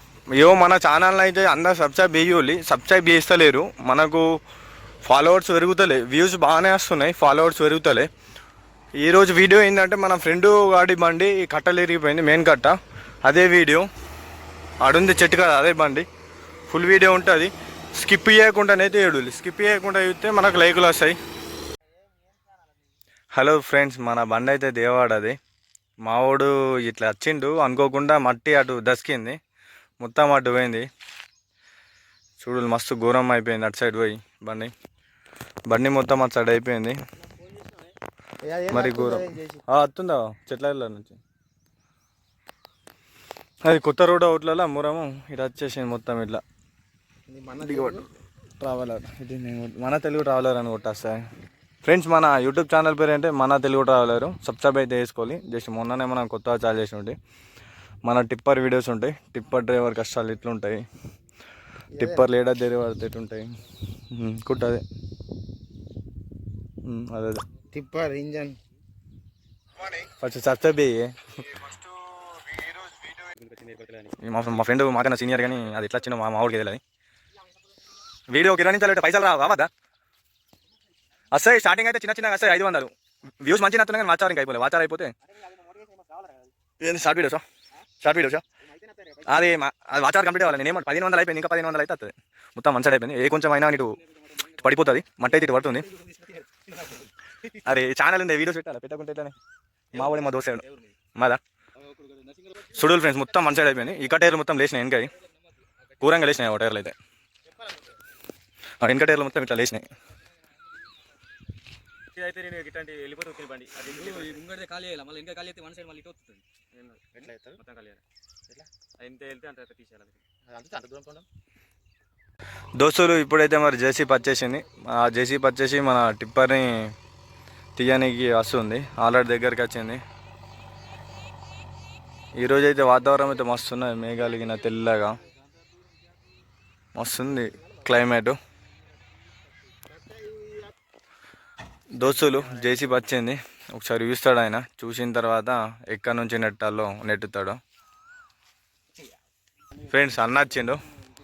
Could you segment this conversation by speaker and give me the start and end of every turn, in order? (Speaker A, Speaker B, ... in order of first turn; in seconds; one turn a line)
Speaker A: 0.4-4.3
Speaker A: 5.0-8.1
Speaker A: 9.0-13.9
Speaker A: 14.8-16.1
Speaker A: 16.7-21.2
Speaker A: 23.3-25.4
Speaker A: 26.0-29.4
Speaker A: 30.0-30.9
Speaker A: 32.4-34.7
Speaker A: 35.7-37.0
Speaker B: 38.4-39.6
Speaker A: 38.7-41.2
Speaker A: 43.6-46.4
Speaker B: 47.3-48.0
Speaker A: 47.6-48.0
Speaker A: 48.6-51.2
Speaker A: 51.8-57.2
Speaker A: 58.0-60.9
Speaker A: 62.0-63.5
Speaker A: 64.1-64.8
Speaker A: 66.8-67.4
Speaker B: 67.7-68.6
Speaker A: 69.8-71.8
Speaker C: 73.2-74.1
Speaker A: 74.1-76.8
Speaker A: 78.3-79.7
Speaker A: 81.3-85.1
Speaker C: 85.6-86.3
Speaker A: 86.8-87.4
Speaker A: 88.0-88.4
Speaker A: 89.3-95.9
Speaker A: 97.5-99.4
Speaker A: 99.9-101.4
Speaker C: 102.0-102.4
Speaker A: 102.7-105.1
Speaker A: 106.0-107.0
Speaker A: 108.8-109.9
Speaker C: 112.2-118.0
Speaker C: 119.0-120.2
Speaker B: 120.5-121.2
Speaker A: 122.8-126.8
Speaker A: 127.8-130.0
Speaker A: 132.4-135.2
Speaker A: 136.9-138.4
Speaker A: 142.0-147.6
Speaker A: 149.8-150.8